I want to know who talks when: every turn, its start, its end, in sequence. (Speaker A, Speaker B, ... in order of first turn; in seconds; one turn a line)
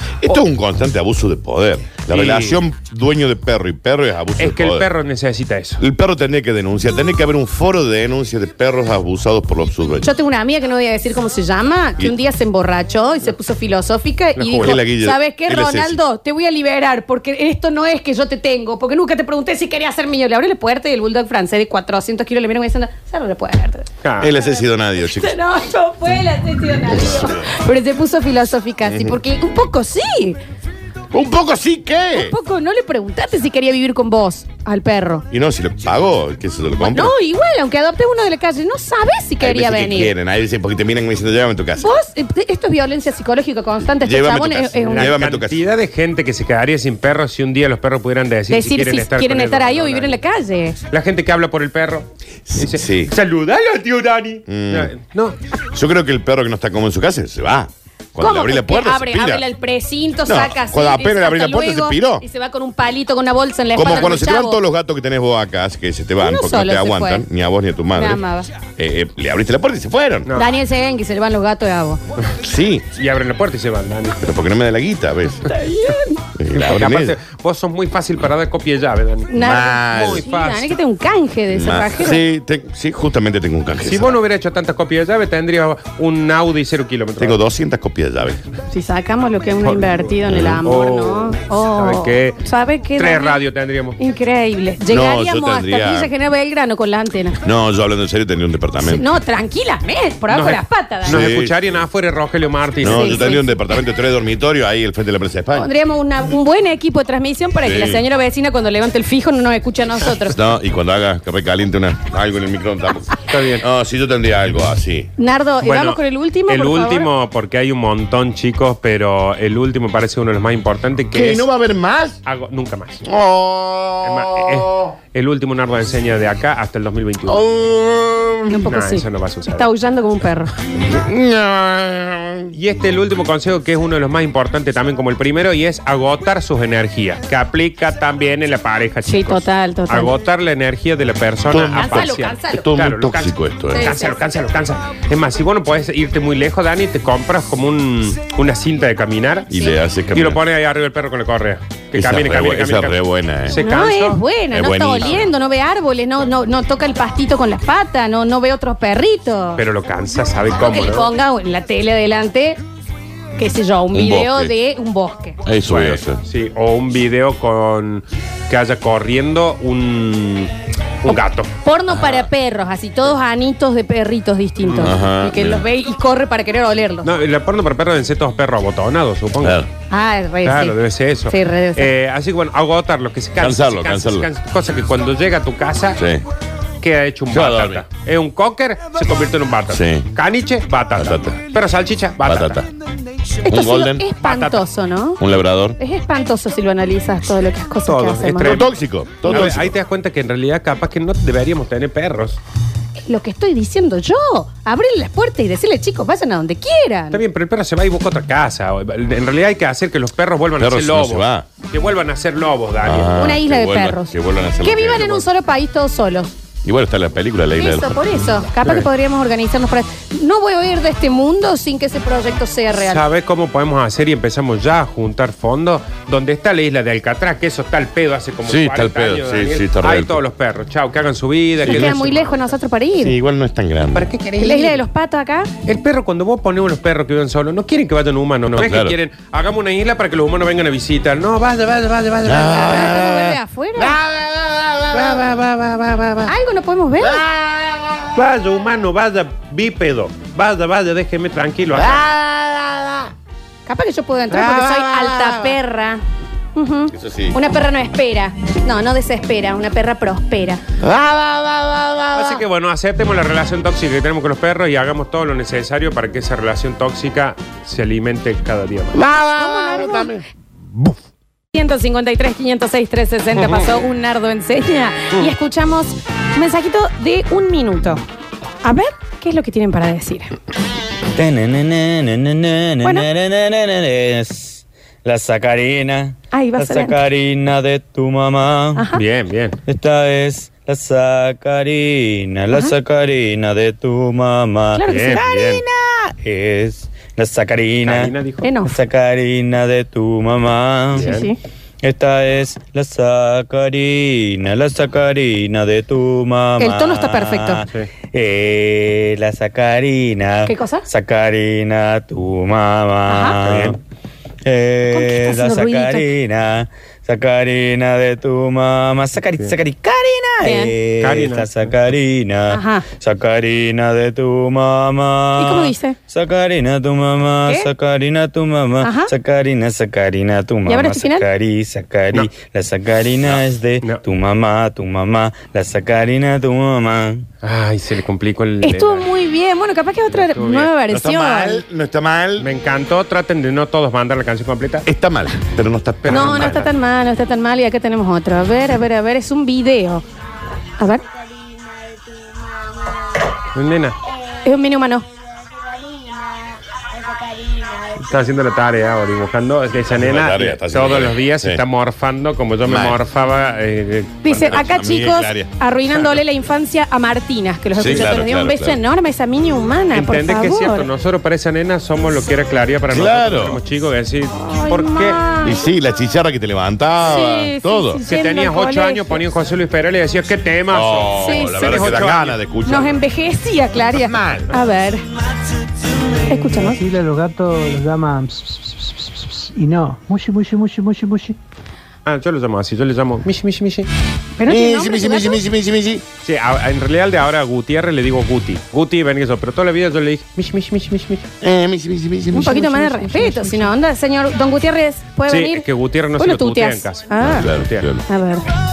Speaker A: 0.2-4.9
Speaker B: 2.1-2.6
Speaker B: 4.4-5.8
Speaker A: 5.8-10.1
Speaker C: 10.0-23.9
Speaker B: 14.4-14.8
Speaker A: 14.6-16.0
Speaker B: 24.0-24.3
Speaker A: 24.2-25.4
Speaker C: 25.0-30.4
Speaker A: 26.9-27.4
Speaker A: 28.9-29.1
Speaker A: 31.1-32.4
Speaker C: 32.1-35.2
Speaker A: 35.3-37.1
Speaker C: 36.8-40.1
Speaker A: 39.4-41.9
Speaker C: 41.8-45.1
Speaker A: 44.0-45.6
Speaker B: 44.9-50.2
Speaker C: 48.5-50.8
Speaker B: 50.9-55.4
Speaker A: 52.5-53.1
Speaker A: 54.5-54.9
Speaker A: 55.7-59.4
Speaker C: 58.2-64.6
Speaker A: 60.3-62.2
Speaker A: 63.7-68.2
Speaker C: 66.2-67.2
Speaker C: 67.9-68.5
Speaker A: 68.8-70.3
Speaker C: 70.3-72.0
Speaker A: 72.4-72.9
Speaker B: 73.0-74.2
Speaker A: 74.2-75.5
Speaker C: 75.5-76.2
Speaker A: 76.4-77.2
Speaker B: 76.5-80.8
Speaker C: 79.3-82.2
Speaker A: 79.4-80.3
Speaker A: 81.5-84.2
Speaker B: 83.8-87.4
Speaker A: 87.2-88.4
Speaker C: 88.7-93.4
Speaker B: 89.6-90.0
Speaker A: 90.3-90.6
Speaker B: 90.7-92.4
Speaker B: 93.0-94.0
Speaker C: 94.0-97.4
Speaker A: 94.9-96.1
Speaker A: 97.4-99.1
Speaker C: 98.8-101.2
Speaker B: 100.3-103.4
Speaker A: 101.1-101.8
Speaker A: 102.8-105.7
Speaker C: 102.9-103.5
Speaker C: 105.5-110.4
Speaker A: 107.6-108.0
Speaker A: 110.2-115.1
Speaker B: 113.3-113.6
Speaker C: 115.2-117.1
Speaker B: 115.6-121.5
Speaker A: 121.1-122.2
Speaker B: 122.2-123.0
Speaker A: 123.0-124.9
Speaker B: 124.0-127.5
Speaker A: 127.3-128.6
Speaker C: 128.5-130.5
Speaker B: 128.7-129.7
Speaker A: 130.8-132.5
Speaker B: 132.5-149.5
Speaker C: 139.1-140.1
Speaker A: 141.5-144.0
Speaker C: 141.7-142.7
Speaker C: 143.7-144.2
Speaker A: 149.5-150.4
Speaker B: 150.1-154.2
Speaker A: 151.9-153.6
Speaker C: 153.6-159.6
Speaker A: 154.5-155.3
Speaker B: 159.6-161.1
Speaker C: 160.6-162.6
Speaker C: 163.4-165.4
Speaker A: 163.9-164.5
Speaker A: 165.4-166.2
Speaker B: 165.7-170.5
Speaker B: 171.0-171.5
Speaker C: 171.6-177.1
Speaker A: 171.9-172.3
Speaker B: 174.7-174.9
Speaker A: 174.8-175.6
Speaker B: 177.0-179.7
Speaker A: 179.4-179.7
Speaker C: 179.9-180.8
Speaker B: 180.4-186.0
Speaker C: 181.3-181.9
Speaker A: 183.4-184.3
Speaker A: 186.0-186.2
Speaker B: 186.8-192.7
Speaker A: 187.3-187.8
Speaker A: 189.7-190.1
Speaker A: 191.0-191.4
Speaker A: 192.2-192.7
Speaker C: 193.4-195.2
Speaker A: 193.5-194.0
Speaker B: 194.2-194.7
Speaker A: 195.2-195.8
Speaker C: 195.8-198.6
Speaker B: 197.9-198.7
Speaker A: 198.4-199.8
Speaker B: 199.2-202.4
Speaker C: 203.0-207.2
Speaker B: 207.1-213.2
Speaker A: 210.6-211.5
Speaker A: 212.8-215.2
Speaker C: 213.2-216.3
Speaker A: 216.6-218.0
Speaker C: 217.6-223.0
Speaker B: 222.9-232.4
Speaker A: 228.4-230.2
Speaker A: 231.7-232.0
Speaker C: 231.7-233.2
Speaker A: 233.0-234.1
Speaker B: 233.9-234.8
Speaker C: 234.4-235.5
Speaker B: 235.7-242.8
Speaker A: 238.6-239.0
Speaker A: 242.2-245.2
Speaker C: 242.4-244.0
Speaker B: 244.9-246.3
Speaker C: 246.2-247.2
Speaker A: 247.0-248.2
Speaker B: 248.2-252.1
Speaker A: 251.7-253.1
Speaker C: 253.7-256.0
Speaker B: 254.3-255.4
Speaker C: 256.6-260.6
Speaker A: 256.9-257.4
Speaker A: 260.8-262.4
Speaker B: 262.1-269.0
Speaker A: 268.9-270.2
Speaker C: 269.4-270.1
Speaker C: 271.5-278.0
Speaker B: 273.4-273.7
Speaker C: 278.6-280.3
Speaker D: 281.2-288.9
Speaker C: 282.8-283.1
Speaker C: 286.3-287.0
Speaker C: 288.8-289.0
Speaker B: 288.9-289.6
Speaker D: 289.7-295.2
Speaker C: 294.8-296.1
Speaker B: 294.9-295.6
Speaker D: 296.2-301.1
Speaker B: 297.9-298.5
Speaker C: 298.4-298.7
Speaker C: 300.9-301.4
Speaker B: 301.0-301.3
Speaker D: 301.8-313.8
Speaker C: 306.6-307.6
Speaker C: 310.5-310.9
Speaker C: 313.1-313.4
Speaker B: 313.4-313.8
Speaker D: 314.4-337.2
Speaker C: 314.9-316.1
Speaker C: 320.4-320.7
Speaker B: 321.0-321.7
Speaker C: 322.5-322.9
Speaker C: 325.4-326.0
Speaker C: 328.8-329.1
Speaker C: 330.7-331.3
Speaker B: 337.4-339.1
Speaker C: 338.6-341.6
Speaker B: 340.1-340.7
Speaker A: 340.9-342.5
Speaker B: 342.4-344.9
Speaker A: 344.9-346.6
Speaker B: 346.1-346.7
Speaker C: 346.1-350.0
Speaker C: 350.8-351.0
Speaker B: 353.5-354.0
Speaker C: 354.4-355.1
Speaker B: 358.0-364.7
Speaker A: 359.9-361.6
Speaker A: 362.6-363.0
Speaker C: 364.2-370.9
Speaker A: 364.4-365.5
Speaker A: 367.8-368.8
Speaker B: 369.9-375.2
Speaker A: 372.9-373.6
Speaker C: 374.4-375.6
Speaker A: 375.4-378.0
Speaker C: 377.1-379.2
Speaker B: 378.1-382.4
Speaker A: 380.7-383.0
Speaker C: 381.2-381.8
Speaker C: 382.7-385.0
Speaker A: 383.8-384.5
Speaker C: 386.3-386.8
Speaker E: 386.3-391.4
Speaker B: 392.1-393.9
Speaker C: 394.4-395.4
Speaker A: 394.5-396.0
Speaker B: 396.2-401.3
Speaker A: 401.4-402.6
Speaker C: 402.3-405.6
Speaker E: 402.6-403.5
Speaker B: 405.3-407.9
Speaker C: 406.2-407.5
Speaker A: 407.2-408.0
Speaker C: 408.1-408.4